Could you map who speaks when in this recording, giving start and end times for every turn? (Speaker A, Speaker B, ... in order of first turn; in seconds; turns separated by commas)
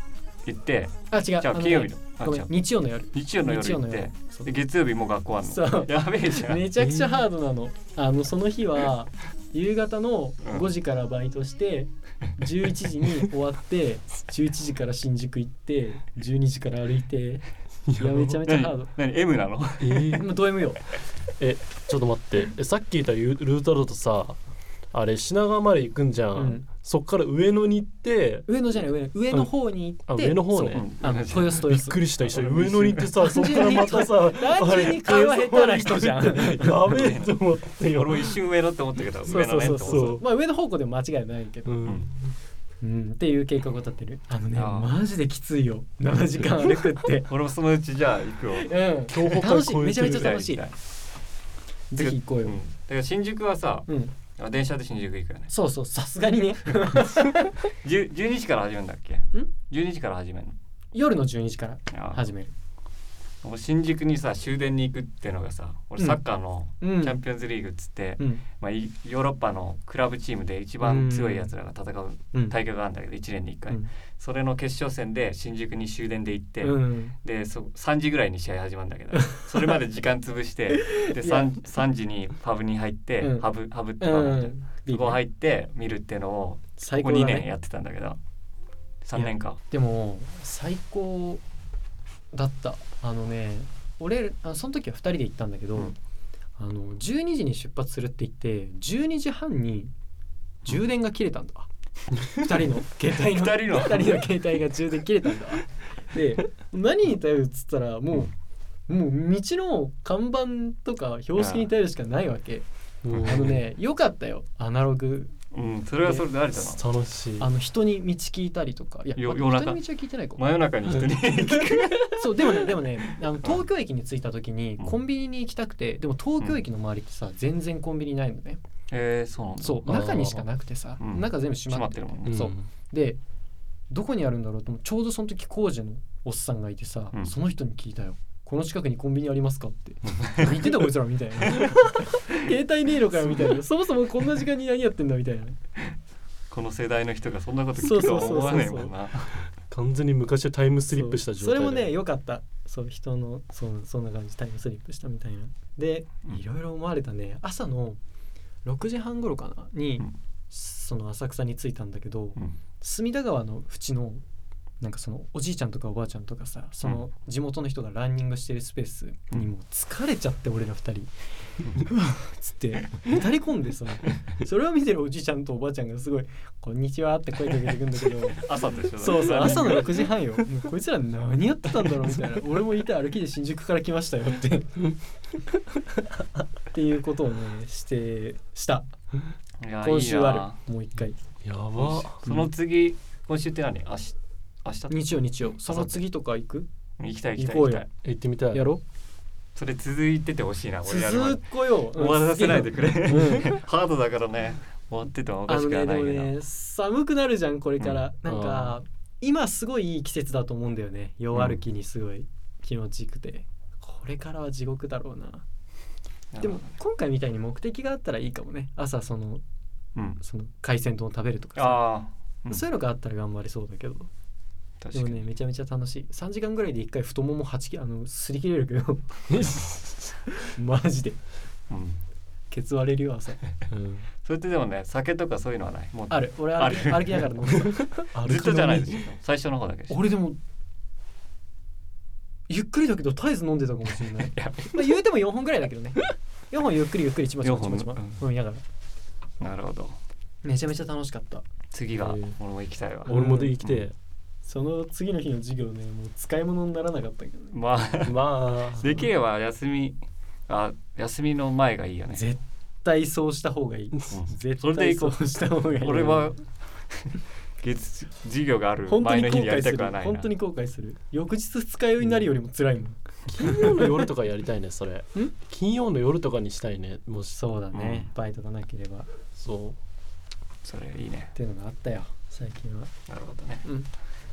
Speaker A: 0.4-2.5, Speaker B: 1.1-4.5, Speaker A: 3.1-6.7, Speaker B: 5.4-17.4, Speaker C: 6.8-7.2, Speaker C: 17.9-18.4, Speaker B: 18.0-18.9, Speaker A: 18.4-20.2, Speaker C: 19.8-20.3, Speaker B: 20.1-20.8, Speaker C: 21.4-24.4, Speaker C: 24.9-28.5, Speaker B: 26.4-26.6, Speaker B: 28.5-32.0, Speaker C: 30.1-30.8, Speaker A: 30.7-31.6, Speaker C: 31.6-38.4, Speaker A: 32.2-33.2, Speaker B: 33.1-36.9, Speaker A: 36.9-40.2, Speaker B: 39.3-41.8, Speaker C: 39.8-40.2, Speaker C: 41.6-42.3, Speaker B: 42.8-47.3, Speaker A: 44.5-44.9, Speaker A: 47.3-48.7, Speaker B: 48.6-50.6, Speaker C: 49.1-50.3, Speaker A: 50.0-50.8, Speaker B: 51.9-52.6, Speaker A: 52.0-55.5, Speaker B: 53.9-54.1, Speaker B: 55.5-57.6, Speaker A: 57.8-60.5, Speaker B: 60.9-62.5, Speaker A: 61.9-62.2, Speaker A: 63.4-88.2, Speaker B: 66.8-67.2, Speaker B: 70.8-71.5, Speaker B: 76.6-77.1, Speaker B: 79.2-79.5, Speaker B: 80.7-81.5, Speaker B: 83.2-83.5, Speaker B: 84.0-85.2, Speaker B: 86.8-87.5, Speaker A: 89.0-89.6, Speaker B: 89.2-91.4, Speaker B: 92.3-95.9, Speaker B: 96.6-99.9, Speaker B: 100.6-101.7, Speaker B: 102.2-108.3, Speaker A: 103.3-104.3, Speaker B: 108.9-115.3, Speaker A: 111.4-111.7, Speaker C: 113.0-113.6, Speaker A: 113.1-113.5, Speaker A: 115.5-116.8, Speaker C: 116.6-117.5, Speaker B: 117.4-120.4, Speaker A: 119.1-122.8, Speaker B: 122.1-128.6, Speaker A: 128.9-130.2, Speaker B: 129.6-133.2, Speaker C: 129.8-130.4, Speaker A: 131.0-132.3, Speaker C: 132.2-132.7, Speaker B: 133.9-145.6, Speaker A: 140.1-140.5, Speaker A: 146.5-149.4, Speaker B: 147.8-148.9, Speaker C: 149.7-151.9, Speaker B: 150.9-158.0, Speaker B: 158.6-164.2, Speaker B: 164.8-171.1, Speaker B: 171.7-184.8, Speaker A: 178.3-180.1, Speaker B: 186.7-188.9, Speaker A: 189.6-190.6, Speaker B: 189.8-191.2, Speaker C: 191.4-192.2, Speaker A: 191.8-196.0, Speaker B: 194.9-196.7, Speaker A: 197.0-197.9, Speaker B: 197.4-197.8, Speaker C: 198.0-198.7, Speaker B: 198.5-198.8, Speaker A: 199.5-206.3, Speaker B: 200.8-203.6, Speaker B: 205.5-215.4, Speaker C: 208.2-208.8, Speaker A: 211.3-211.6, Speaker A: 216.3-216.7, Speaker B: 216.4-219.4, Speaker B: 220.2-221.8, Speaker A: 221.6-222.6, Speaker B: 222.5-224.1, Speaker A: 224.8-225.2, Speaker B: 224.9-229.2, Speaker C: 229.3-230.1, Speaker B: 230.4-231.2, Speaker A: 231.7-232.0, Speaker B: 232.5-233.4, Speaker C: 233.7-234.1, Speaker A: 234.2-237.3, Speaker B: 236.1-237.9, Speaker C: 238.1-239.0, Speaker A: 238.2-240.0, Speaker B: 239.9-240.4, Speaker B: 242.5-248.6, Speaker A: 244.3-244.9, Speaker A: 247.4-248.2, Speaker A: 249.4-250.0, Speaker B: 250.4-251.4, Speaker A: 251.7-253.9, Speaker C: 252.0-252.3, Speaker B: 253.1-253.6, Speaker C: 253.1-253.9, Speaker B: 254.4-257.5, Speaker A: 257.5-258.2, Speaker C: 258.0-259.1, Speaker A: 258.8-262.2, Speaker B: 262.1-266.4, Speaker A: 264.1-270.3, Speaker B: 268.9-274.0, Speaker C: 273.3-277.4, Speaker B: 277.3-279.1, Speaker A: 277.7-278.1, Speaker C: 279.4-279.8, Speaker A: 280.6-281.3, Speaker B: 281.3-282.9, Speaker A: 283.1-283.6